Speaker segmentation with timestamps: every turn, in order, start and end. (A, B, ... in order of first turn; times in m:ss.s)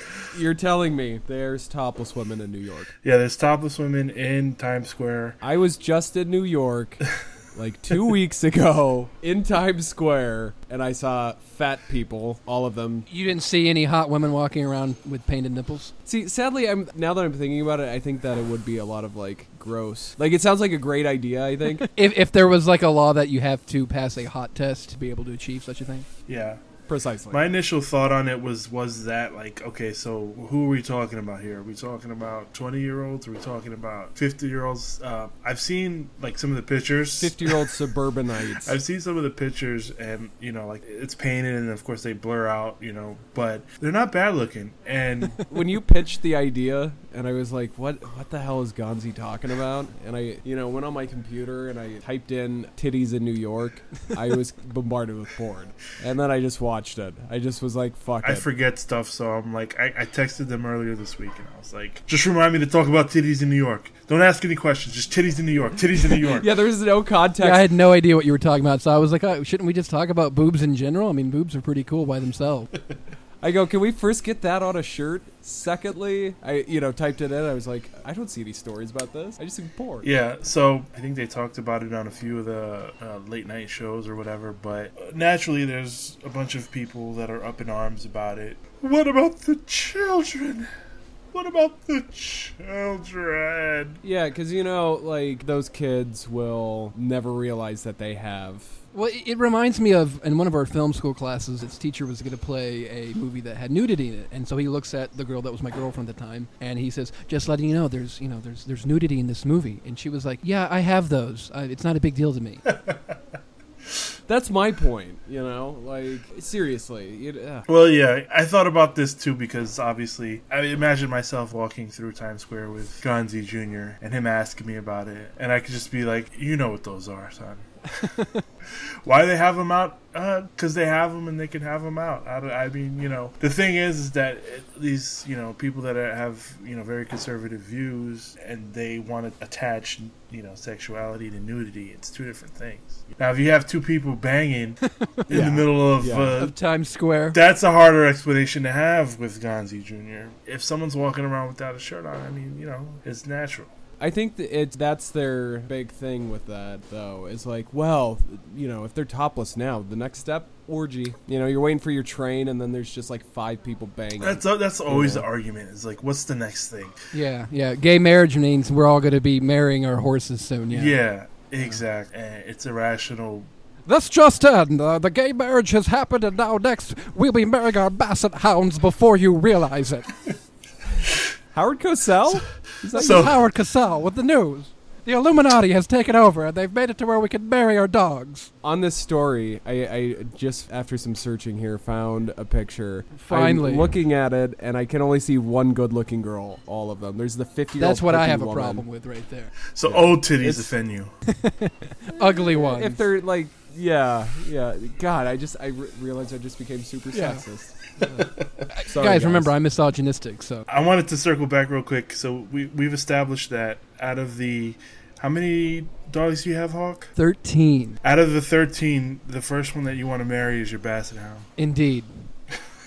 0:00.3-0:02.9 A
0:03.0-0:05.4 B
0:05.4-0:13.1 A
0:13.1-0:15.9 C
0:16.1-0:21.9 A
0:21.9-0:26.1 C
0:26.3-0:26.6 B
0:26.9-0:27.5 A
0:27.3-0:37.5 B
0:37.2-0:38.8 A
0:38.6-0:45.4 B
0:45.5-0:58.5 A
0:58.2-1:06.5 B
1:06.2-1:07.7 A
1:07.4-1:12.7 C
1:13.4-1:20.1 A
1:20.0-1:30.7 B
1:31.3-1:34.0 B
1:34.0-1:38.8 A
1:38.9-1:52.6 C
1:54.3-1:57.7 A
1:57.7-2:07.7 B
2:09.0-2:26.6 B
2:25.3-2:26.4 A
2:26.4-2:27.4 C
2:27.3-2:33.7 B
2:34.0-2:45.3 A
2:44.2-2:47.0 B
2:47.1-2:51.0 C
2:50.7-2:53.5 B
2:53.9-3:00.1 C
3:01.5-3:03.3 A
3:02.9-3:03.3 B
3:03.0-3:08.5 C
3:08.6-3:18.9 A
3:13.2-3:14.0 C
3:17.8-3:19.5 C
3:19.8-3:21.1 B
3:19.8-3:20.7 A
3:21.3-3:23.0 C
3:22.5-3:29.5 A
3:27.1-3:27.4 C
3:28.7-3:30.7 C
3:30.7-3:37.1 B
3:37.2-3:38.0 C
3:38.0-3:41.5 B
3:41.6-3:42.3 C